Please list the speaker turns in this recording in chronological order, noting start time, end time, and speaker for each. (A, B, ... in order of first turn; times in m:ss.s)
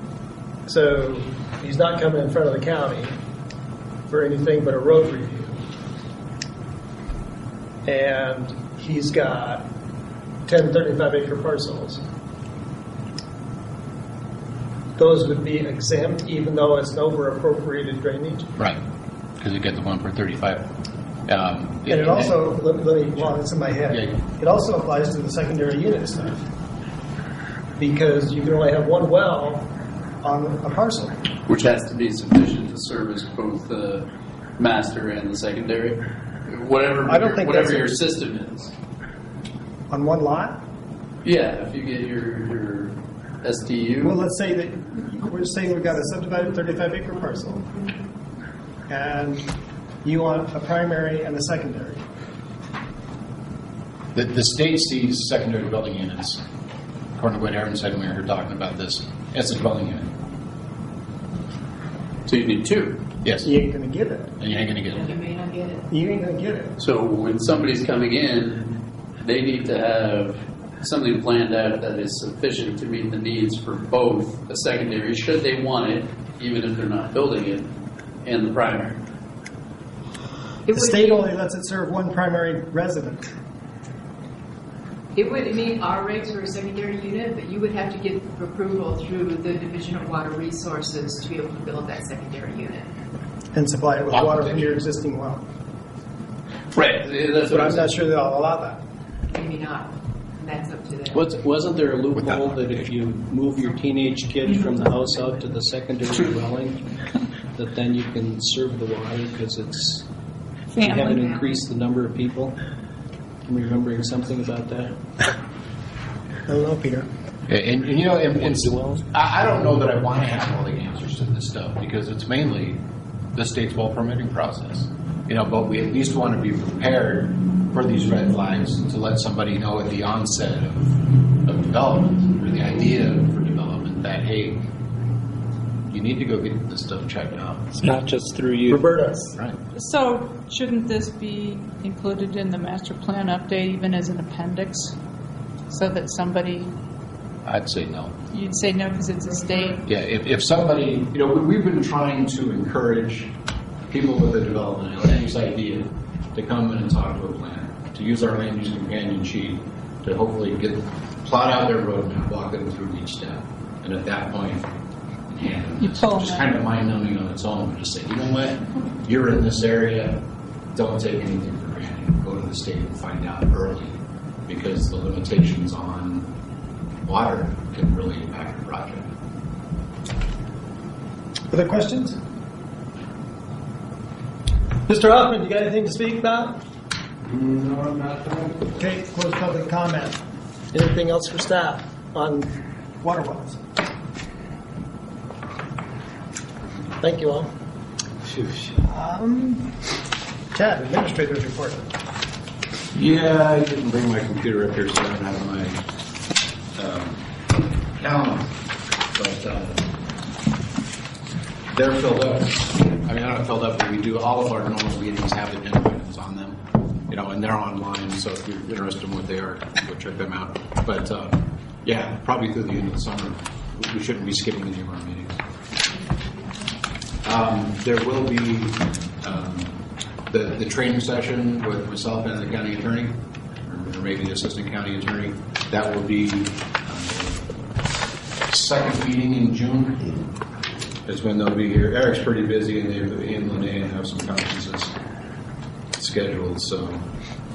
0:00.6-0:03.2 A
0:04.1-0:05.6 A
0:07.8-0:09.6 A
0:10.5-0:12.0 A
0:15.0-0:18.5 A
0:19.4-0:20.7 B
0:21.2-0:24.2 B
0:21.9-0:26.4 A
0:27.8-0:29.7 A
0:30.2-0:31.2 A
0:31.5-0:34.0 C
0:34.6-0:38.7 C
0:37.0-0:37.9 A
0:39.9-0:40.6 A
0:41.2-0:44.2 C
0:44.0-0:47.6 A
0:48.9-0:49.5 A
0:50.0-0:52.0 A
0:54.1-0:56.4 B
0:57.2-1:00.1 B
1:02.3-1:03.0 C
1:03.2-1:03.5 B
1:03.4-1:04.4 A
1:04.4-1:05.1 B
1:04.5-1:05.9 D
1:05.9-1:06.7 A
1:06.8-1:17.7 C
1:18.2-1:19.0 C
1:20.7-1:21.3 D
1:20.7-1:23.3 A
1:25.2-1:32.9 D
1:33.5-1:35.4 A
1:34.1-1:34.8 B
1:36.7-1:37.9 C
1:37.3-1:38.8 A
1:39.3-1:41.2 D
1:41.1-1:46.9 E
1:42.1-1:43.0 B
1:47.5-1:50.0 E
1:50.7-1:52.6 E
1:50.7-1:51.3 F
1:53.4-1:55.0 E
1:56.5-1:57.1 A
1:57.5-2:02.8 B
1:58.3-1:59.0 E
2:03.3-2:14.6 B
2:15.9-2:17.7 B
2:18.7-2:19.3 E
2:19.7-2:25.0 F
2:25.7-2:26.7 F
2:27.4-2:28.2 B
2:28.3-2:29.8 F
2:29.8-2:33.3 B
2:33.9-2:44.7 B
2:45.3-2:50.2 B
2:45.8-2:46.5 F
2:50.7-2:56.3 B
2:57.0-2:59.0 B
3:01.5-3:02.2 A
3:04.9-3:06.6 A
3:07.4-3:07.7 A
3:08.6-3:10.2 A
3:10.7-3:13.6 A
3:17.0-3:17.5 A
3:18.2-3:18.8 B
3:18.8-3:19.8 A
3:20.5-3:21.9 A
3:22.9-3:25.8 B
3:26.8-3:27.2 B
3:28.0-3:28.5 B
3:29.1-3:29.9 B
3:31.7-3:45.4 B
3:47.2-3:49.8 B
3:50.3-3:57.5 B
3:58.5-4:00.2 B
4:01.0-4:04.9 B
4:06.0-4:07.0 B